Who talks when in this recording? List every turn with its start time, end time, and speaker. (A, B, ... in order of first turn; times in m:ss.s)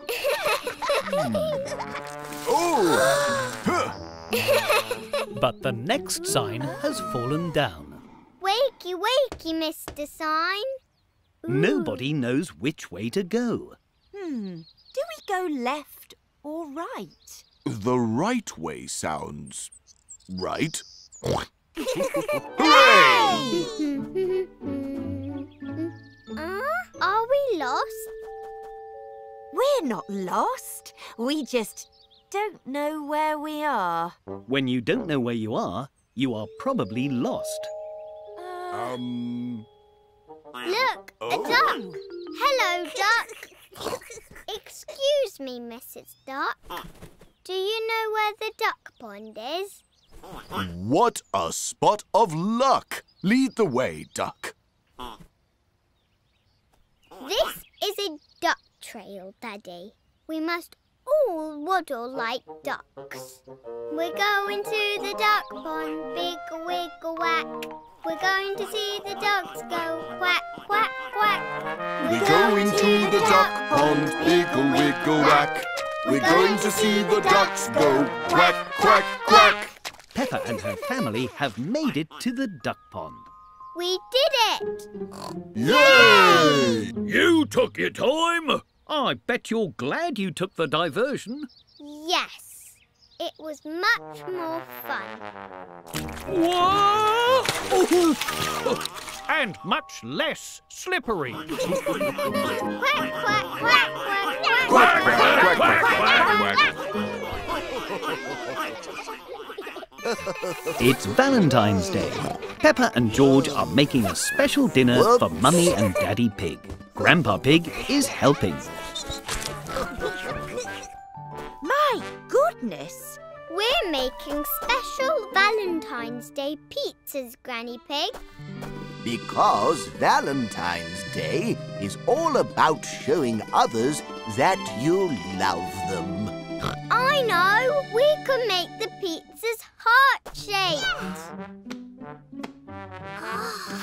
0:01.0-0:01.6 A
0:02.4-0:04.0 A
0:05.4-0:08.0 B
0:08.4-0:10.7 C
0:11.4-0:12.0 C
0:11.5-0:13.8 B
0:14.1-0:17.4 D
0:17.6-0:19.7 A
0:20.3-0:21.3 A
0:22.1-0:23.6 A
0:22.6-0:28.1 C
0:23.2-0:23.6 D
0:29.5-0:34.2 D
0:34.5-0:37.7 B
0:38.4-0:39.0 D
0:38.7-0:39.7 A
0:40.6-0:43.5 C
0:41.2-0:41.9 A
0:44.5-0:46.6 C
0:47.4-0:49.8 C
0:50.5-0:54.5 A
0:57.2-1:11.5 C
1:12.0-1:15.5 C
1:12.0-1:19.7 A
1:16.0-1:19.6 C
1:20.1-1:23.3 B
1:23.7-1:24.9 C
1:25.5-1:26.9 A
1:25.6-1:26.8 C
1:26.0-1:26.3 E
1:27.0-1:28.8 E
1:28.8-1:31.5 B
1:31.8-1:35.2 C
1:36.3-1:38.8 E
1:39.3-1:40.8 E
1:39.3-1:41.4 B
1:42.7-1:45.0 C
1:44.7-1:46.5 E
1:44.7-1:46.7 A
1:50.1-1:50.6 F
1:50.8-1:58.7 B
1:54.9-1:55.7 F
2:01.6-2:03.2 D
2:03.5-2:08.2 C
2:09.0-2:16.3 F
2:16.9-2:21.2 C